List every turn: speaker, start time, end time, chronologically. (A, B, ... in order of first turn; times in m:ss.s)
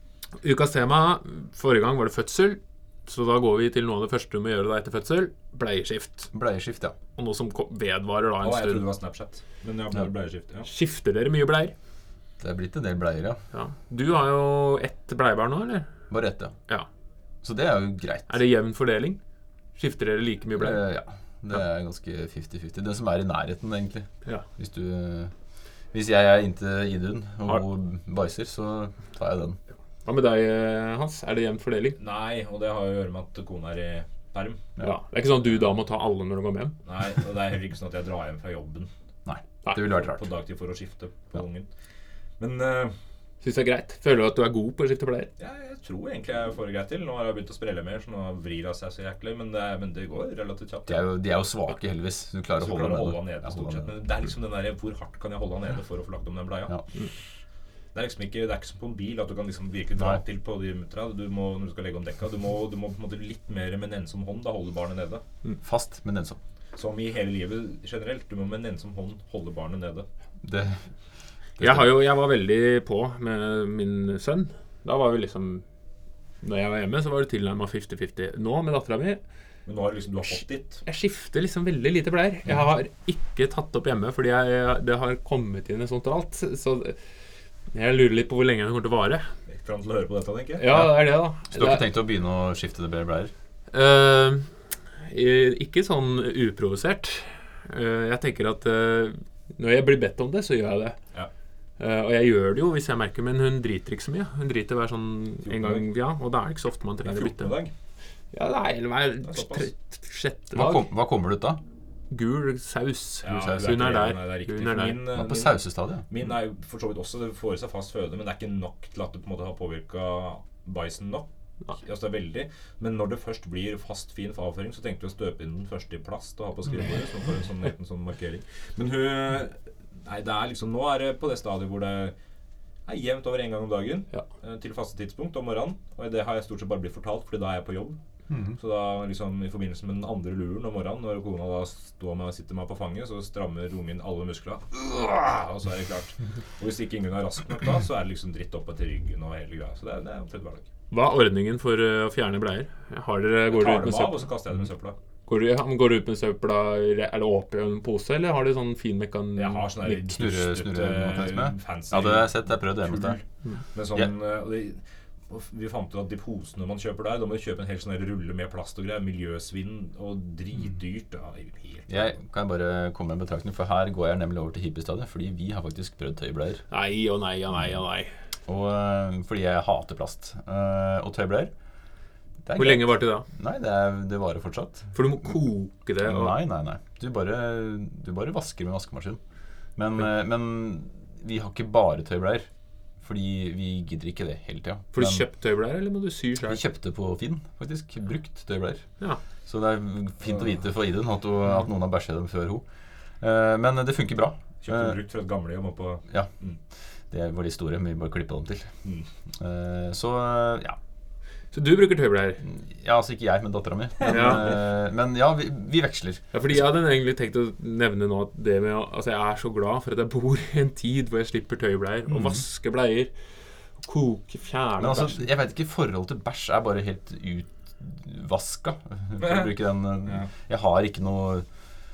0:00.4-0:06.3 A
0:06.3-0:07.0 B
0:07.2-0:08.9 A
0:08.4-0:10.7 C
0:10.7-0:11.7 A
0:12.4-0:13.4 B
0:13.5-0:15.9 A
0:16.1-0:16.6 B
0:17.4-0:18.4 B
0:18.3-0:19.2 A
0:19.8-0:20.8 A
0:20.6-0:25.3 B
0:25.9-0:29.6 B
0:30.0-0:32.0 A
0:32.0-0:34.6 C
0:34.8-0:36.8 A
0:36.8-0:38.9 C
0:39.3-0:40.2 B
0:39.9-0:41.7 C
0:42.4-0:42.9 C
0:43.4-0:45.3 A
0:45.4-0:51.1 C
0:50.9-0:53.9 B
0:52.6-0:56.8 C
0:57.9-1:05.2 C
1:05.6-1:06.4 B
1:06.8-1:10.1 C
1:10.4-1:10.8 B
1:11.6-1:12.0 B
1:11.6-1:15.6 A
1:16.4-1:19.2 A
1:19.7-1:20.8 C
1:20.8-1:27.0 A
1:27.7-1:29.3 A
1:29.5-1:30.7 C
1:30.6-1:31.8 A
1:30.7-1:33.3 B
1:33.7-1:34.5 A
1:35.0-1:41.0 A
1:41.8-1:47.6 A
1:45.4-1:45.9 C
1:47.0-1:47.7 C
1:48.3-1:50.9 A
1:49.3-1:49.7 C
1:50.5-1:51.6 B
1:52.1-1:55.0 A
1:53.2-2:12.1 C
1:53.3-1:53.8 B
1:55.2-1:56.1 B
2:12.9-2:18.0 C
2:18.3-2:18.6 B
2:18.6-2:30.7 C
2:30.9-2:34.3 A
2:33.5-2:35.0 C
2:35.3-2:39.7 A
2:39.4-2:43.2 C
2:39.8-2:43.2 B
2:43.7-2:52.1 C
2:51.9-2:56.6 B
2:56.7-2:58.1 A
2:58.5-3:01.5 B
3:02.4-3:04.9 B
3:02.6-3:03.3 A
3:04.9-3:06.4 A
3:06.0-3:09.2 B
3:09.8-3:12.5 B
3:13.0-3:15.2 B
3:14.9-3:16.6 A
3:16.5-3:18.9 B
3:19.5-3:22.6 B
3:23.2-3:25.0 B
3:24.6-3:26.6 C
3:27.1-3:28.7 B
3:29.4-3:30.8 B
3:31.5-3:32.4 A
3:32.4-3:36.3 B
3:34.1-3:34.5 A
3:36.3-3:43.1 A
3:42.1-3:42.4 B
3:43.8-3:45.3 A
3:44.8-3:51.5 B
3:49.2-3:49.5 C